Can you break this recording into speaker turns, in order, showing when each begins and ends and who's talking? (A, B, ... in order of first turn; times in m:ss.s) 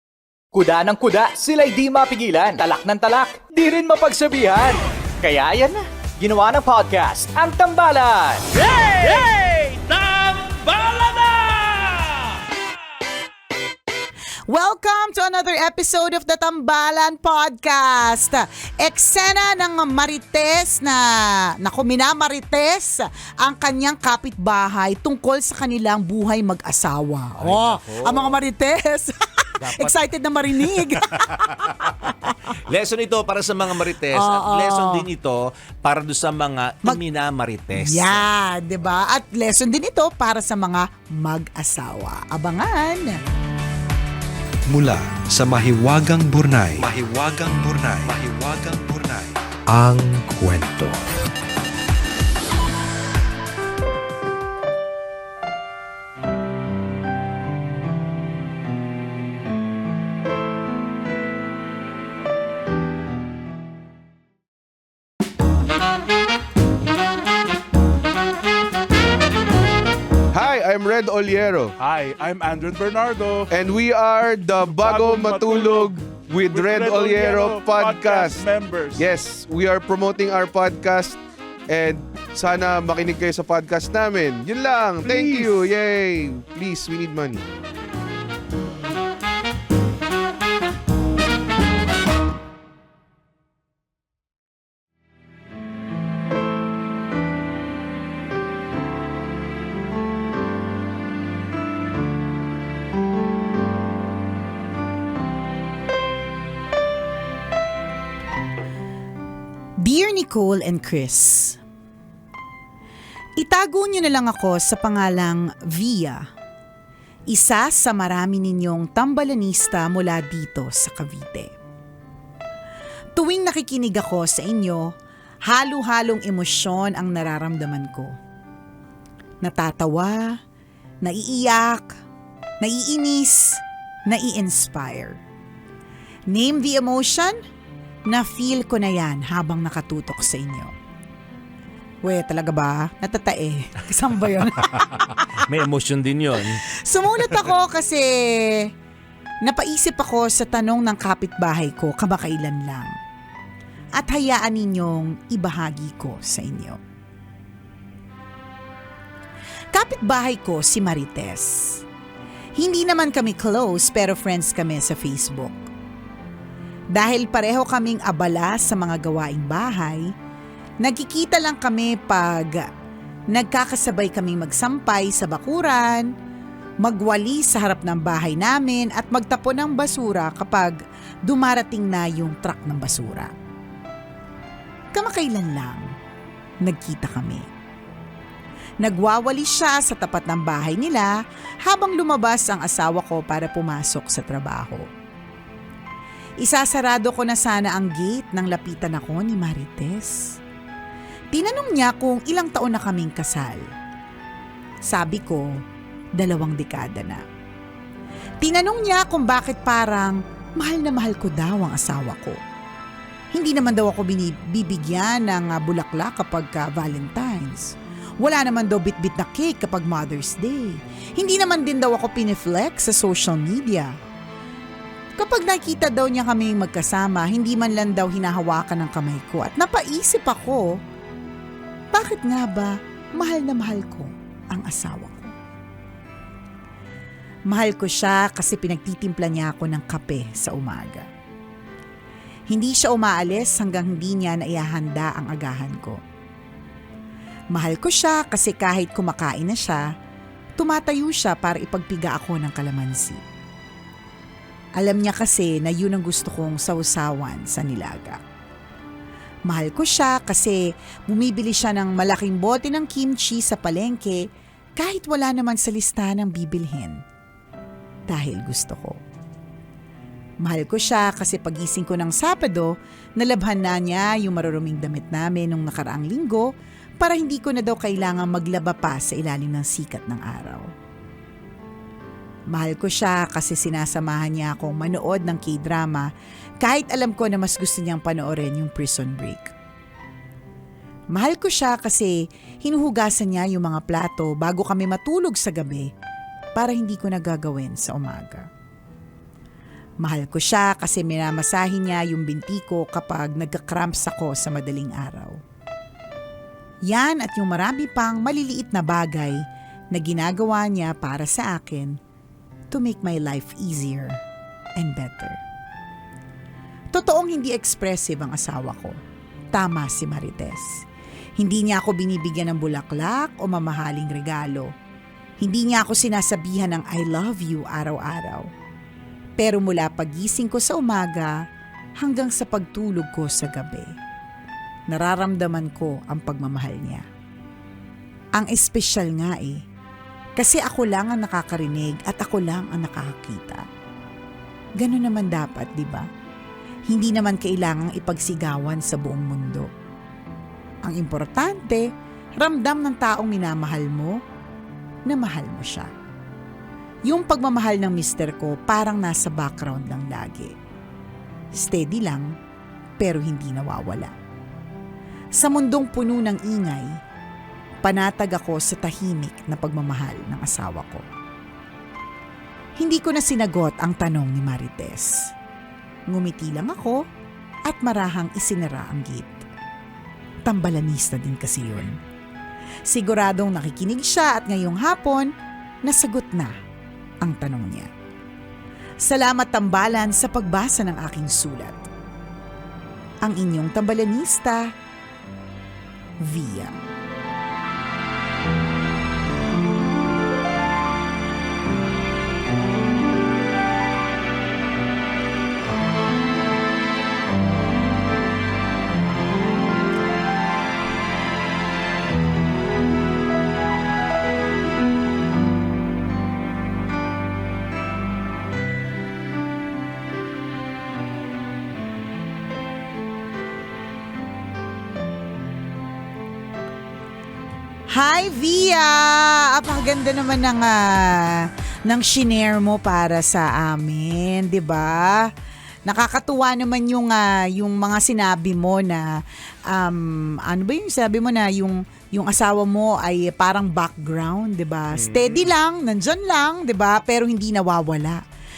0:00.5-0:08.9 A
0:09.0-0:12.3 B
0:14.5-0:32.1 C
0:27.4-0:28.4 B
0:29.6-0:30.0 B
0:30.6-0:38.3 B
0:34.1-0:35.1 C
0:37.7-0:43.2 C
0:44.7-0:51.2 D
1:10.3-1:11.7 E
1:11.8-1:13.5 F
1:13.5-1:21.2 E
1:14.7-1:19.0 F
1:21.7-1:27.4 E
1:25.0-1:25.6 F
1:49.8-1:51.6 C
1:53.4-1:56.2 C
1:57.3-2:01.5 C
2:03.2-2:04.9 C
2:05.5-2:08.1 C
2:09.4-2:10.4 C
2:11.0-2:12.0 C
2:12.6-2:15.2 C
2:16.3-2:17.4 C
2:18.1-2:20.7 C
2:22.0-2:25.2 C
2:24.8-2:26.6 B
2:26.7-2:28.7 C
2:29.4-2:32.9 C
2:34.0-2:36.8 C
2:39.7-2:41.8 C
2:42.6-2:45.6 C
2:46.9-2:50.1 C
2:50.8-2:52.7 C
2:53.3-2:56.1 C
2:56.8-3:03.3 C
3:04.9-3:05.9 C
3:06.6-3:07.5 C
3:08.8-3:14.9 C
3:16.4-3:20.4 C
3:21.3-3:23.6 C
3:24.9-3:25.6 C
3:26.2-3:27.2 C
3:28.4-3:32.4 C
3:33.3-3:43.9 C
3:45.2-3:50.8 C
3:51.9-3:55.3 C
3:57.5-4:01.1 C
4:02.5-4:06.0 C
4:07.5-4:09.9 C
4:10.6-4:13.2 C
4:14.8-4:18.2 C
4:19.5-4:24.3 C
4:24.8-4:27.0 C
4:28.1-4:29.0 C
4:30.4-4:40.7 C
4:42.5-4:46.1 C
4:46.6-4:49.5 C
4:51.1-4:55.9 C
4:56.6-4:58.5 C
5:00.0-5:05.4 C
5:06.9-5:09.4 C
5:09.9-5:12.0 C
5:12.7-5:14.2 C
5:14.8-5:15.4 C
5:16.9-5:19.0 C
5:19.5-5:20.8 C
5:21.4-5:24.7 C
5:25.4-5:28.5 C
5:29.4-5:31.4 C
5:32.0-5:33.9 C
5:34.9-5:37.0 C
5:38.4-5:39.6 C
5:40.4-5:43.6 C
5:44.8-5:46.1 C
5:46.9-5:49.7 C
5:50.8-5:51.9 C
5:52.4-5:54.2 C
5:55.1-5:55.9 C
5:57.1-6:00.6 C
6:01.5-6:02.4 C
6:03.0-6:04.1 C
6:05.4-6:06.9 C
6:07.8-6:11.0 C
6:12.8-6:15.3 C
6:16.1-6:17.0 C
6:17.7-6:19.4 C
6:20.4-6:22.0 C
6:22.9-6:25.3 C
6:25.8-6:26.5 C
6:27.2-6:27.9 C
6:29.0-6:31.9 C
6:33.2-6:34.7 C
6:36.2-6:36.8 C
7:07.9-7:15.3 C
7:15.9-7:28.2 C
7:24.9-7:25.5 B